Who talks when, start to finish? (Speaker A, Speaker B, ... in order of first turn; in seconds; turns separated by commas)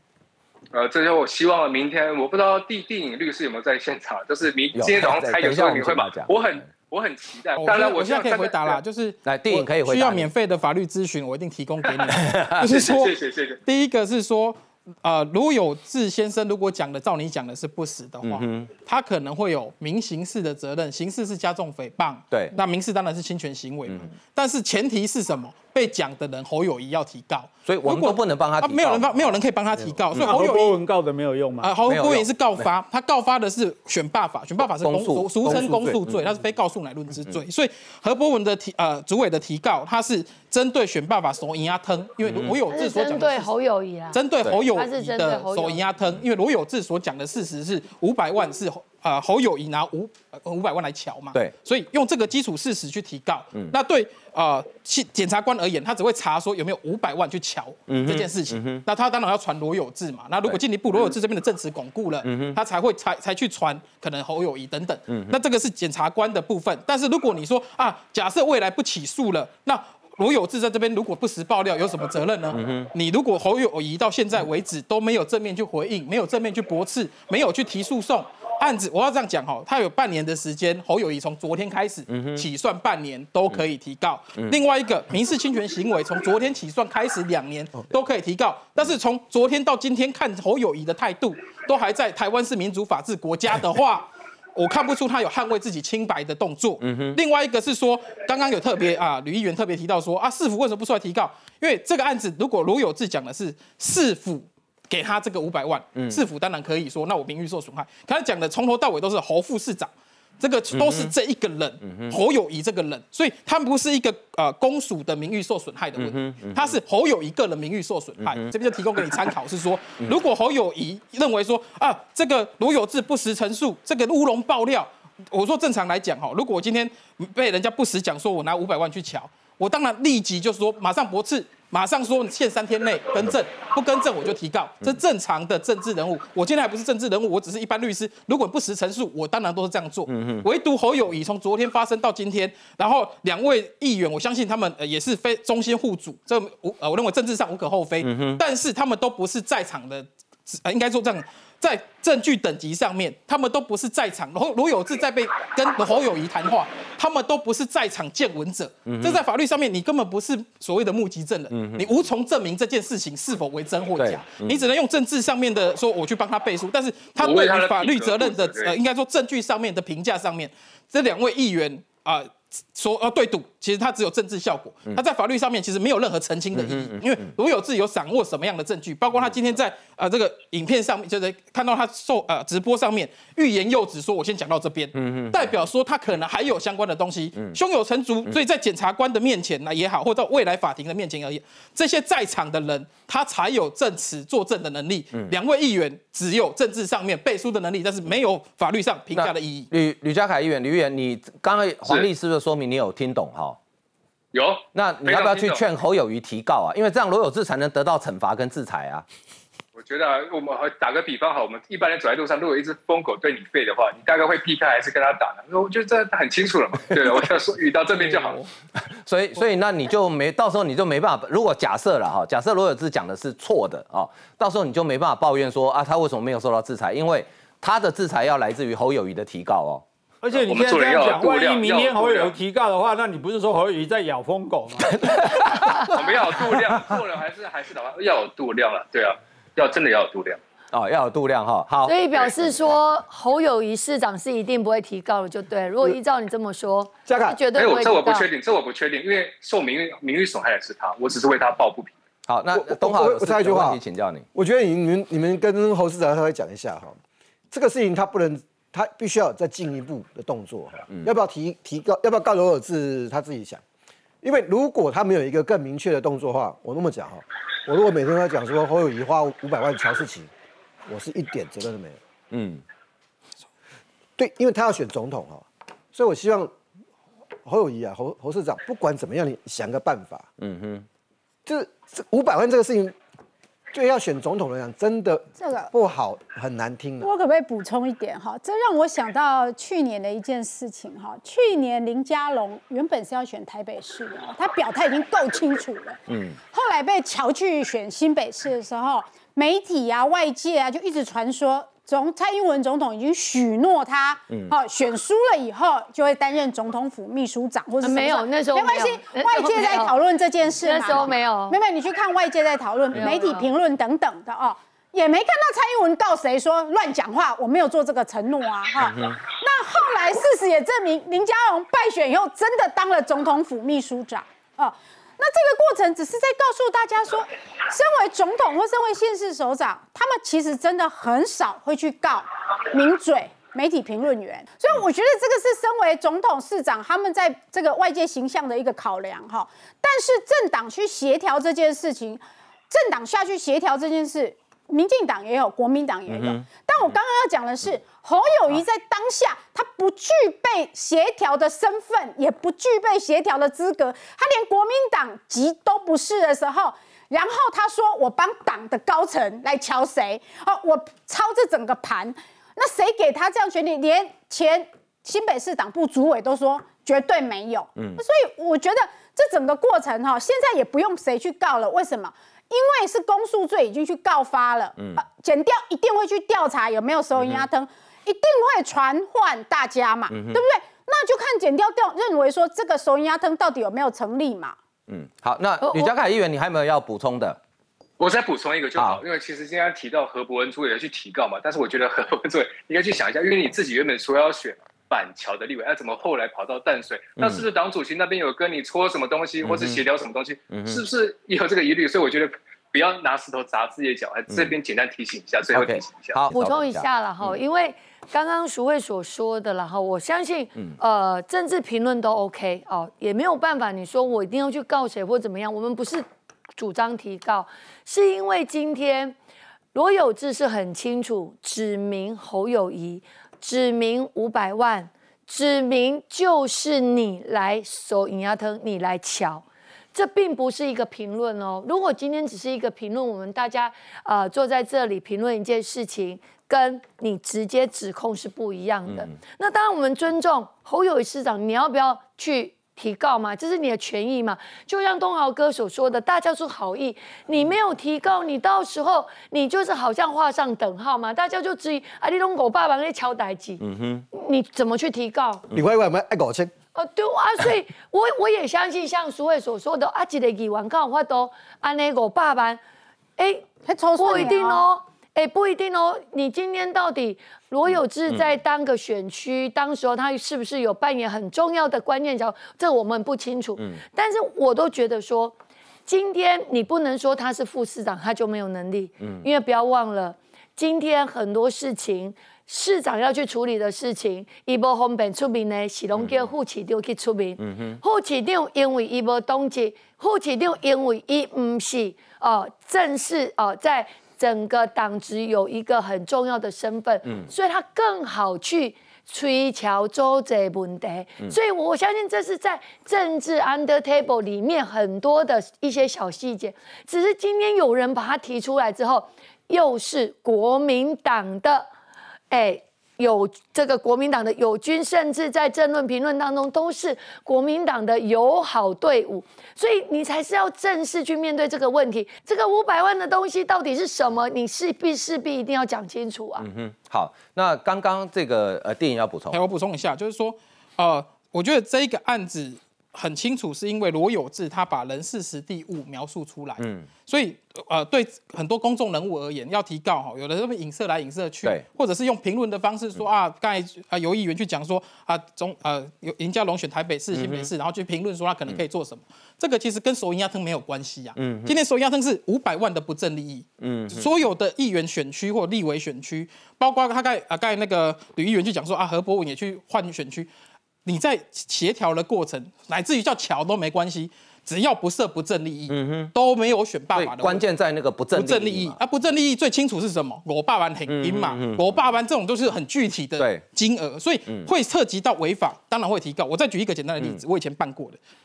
Speaker A: 0.7-8.8, Speaker B: 4.7-6.7, Speaker C: 7.6-30.8, Speaker B: 9.2-10.3, Speaker B: 12.1-12.7, Speaker A: 12.6-13.6, Speaker B: 18.2-18.7, Speaker B: 22.3-22.6, Speaker B: 23.9-24.1, Speaker B: 27.6-29.4, Speaker D: 30.1-31.8, Speaker C: 31.6-43.5, Speaker B: 31.9-32.7, Speaker B: 34.8-36.2, Speaker E: 35.5-36.0, Speaker B: 42.2-42.6, Speaker F: 42.7-45.8, Speaker C: 44.1-199.7, Speaker B: 57.9-58.8, Speaker B: 62.2-62.6, Speaker B: 65.1-65.4, Speaker B: 72.5-72.9, Speaker B: 82.1-82.5, Speaker B: 96.8-97.2, Speaker B: 105.9-106.2, Speaker B: 110.7-111.1, Speaker B: 111.8-112.2, Speaker B: 116.0-116.8, Speaker B: 118.2-118.5, Speaker B: 140.1-140.4, Speaker B: 148.0-148.4, Speaker B: 158.8-159.2, Speaker B: 161.5-161.9, Speaker B: 163.9-164.6, Speaker A: 167.2-168.8, Speaker B: 176.5-177.3, Speaker B: 184.9-185.5, Speaker B: 199.1-203.6, Speaker A: 204.3-205.6, Speaker B: 204.7-209.1, Speaker A: 209.8-218.4, Speaker C: 217.9-218.5, Speaker B: 218.8-229.8, Speaker D: 230.2-234.9, Speaker A: 230.3-232.4, Speaker B: 234.9-235.7, Speaker A: 235.9-240.4, Speaker B: 240.7-242.6, Speaker F: 241.8-248.3, Speaker E: 247.1-247.4, Speaker A: 247.5-251.9, Speaker B: 252.3-254.2, Speaker E: 252.5-253.8, Speaker E: 254.3-257.0, Speaker E: 257.5-263.6, Speaker E: 264.2-270.3, Speaker E: 270.9-272.0, Speaker B: 272.3-272.6, Speaker E: 274.2-276.5, Speaker E: 277.4-280.3, Speaker B: 280.4-280.9, Speaker E: 281.4-282.9, Speaker E: 283.7-287.1, Speaker G: 285.4-285.7, Speaker G: 287.0-384.6, Speaker B: 296.1-296.4, Speaker B: 304.3-304.5, Speaker F: 307.8-309.9, Speaker F: 310.6-311.6, Speaker F: 312.9-313.4, Speaker B: 318.8-319.1, Speaker B: 346.1-346.9, Speaker B: 367.8-368.0, Speaker B: 377.1-377.5, Speaker B: 380.1-380.4, Speaker B: 384.9-387.4, Speaker F: 385.6-385.9, Speaker A: 388.0-406.2, Speaker B: 388.8-389.0, Speaker B: 397.2-397.4, Speaker B: 399.4-399.8, Speaker B: 400.5-400.8, Speaker B: 405.5-407.4, Speaker F: 406.3-416.0, Speaker F: 416.6-419.1, Speaker F: 419.7-455.4, Speaker B: 453.6-454.0, Speaker E: 455.5-456.5, Speaker F: 456.7-462.6, Speaker F: 463.2-475.3, Speaker G: 463.6-464.6, Speaker F: 475.9-511.7, Speaker B: 485.9-486.3, Speaker B: 487.4-487.8, Speaker B: 497.0-497.3, Speaker F: 512.3-526.5, Speaker B: 526.4-529.4, Speaker C: 529.3-560.3, Speaker B: 536.6-536.9, Speaker B: 547.1-547.5, Speaker B: 551.1-551.5, Speaker B: 553.6-554.1, Speaker C: 560.8-567.5, Speaker B: 565.7-566.1, Speaker B: 566.9-568.8, Speaker C: 568.1-578.0, Speaker B: 570.9-571.9, Speaker B: 573.2-573.4